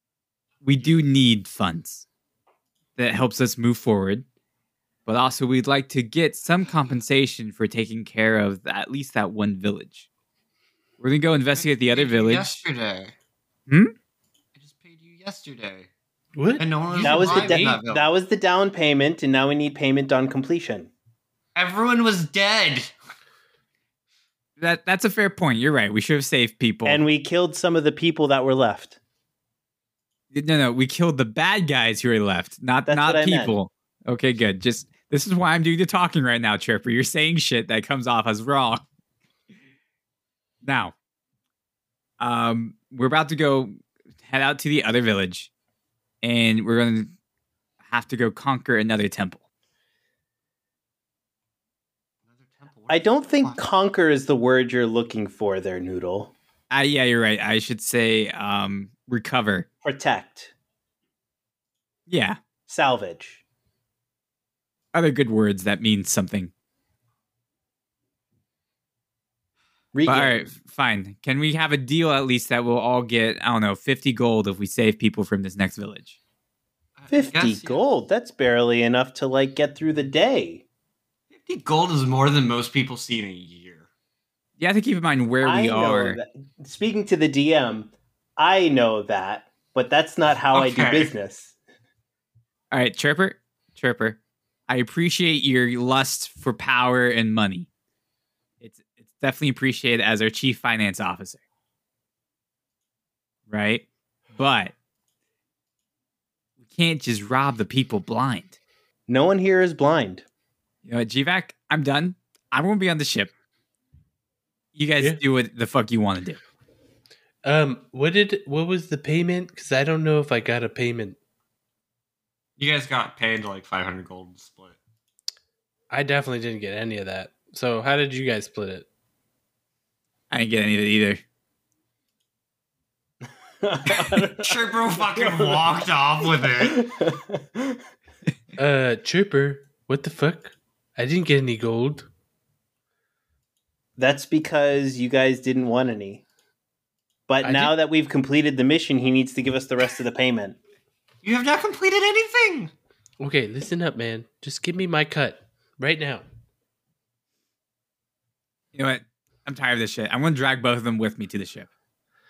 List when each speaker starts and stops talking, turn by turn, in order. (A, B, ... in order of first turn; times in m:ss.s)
0:00.6-0:02.0 A
0:03.0-0:04.2 A
0:05.0-0:10.0 A
0:11.0-0:12.6 A
0:11.6-0:13.1 B
0:13.7-0:13.9 A
0:14.6-0:15.9 B
0:16.4-0:17.8 C
0:16.6-0:18.1 B
0:17.0-0:20.9 D
0:21.5-0:22.9 B
0:24.6-0:27.0 A
0:26.8-0:29.0 D
0:30.3-0:38.8 A
0:32.8-0:33.5 D
0:40.6-0:40.9 A
0:42.2-0:45.5 A
0:46.2-0:47.1 A
0:47.8-0:49.4 A
0:52.3-0:53.6 B
0:52.9-0:56.3 D
0:56.7-0:59.7 A
0:59.8-1:00.5 D
1:02.1-1:02.4 A
1:02.7-1:03.4 D
1:04.9-1:06.5 A
1:09.9-1:10.4 D
1:10.0-1:16.2 A
1:17.0-1:17.8 B
1:17.1-1:20.6 D
1:21.3-1:23.9 B
1:24.6-1:26.2 A
1:25.4-1:31.5 D
1:30.5-1:31.1 B
1:32.7-1:37.7 A
1:38.6-1:41.4 A
1:43.5-1:44.7 A
1:46.6-1:48.6 A
1:49.1-1:50.2 D
1:50.8-1:53.3 A
1:54.7-1:56.4 A
1:57.4-2:01.2 C
2:02.6-2:04.8 B
2:05.9-2:08.8 C
2:10.3-2:11.2 A
2:13.6-2:15.7 D
2:14.4-2:16.8 B
2:16.6-2:17.8 D
2:18.6-2:22.1 C
2:24.0-2:26.2 D
2:27.3-2:30.6 D
2:27.4-2:27.7 C
2:31.2-2:32.7 B
2:33.2-2:36.2 C
2:38.7-2:41.7 A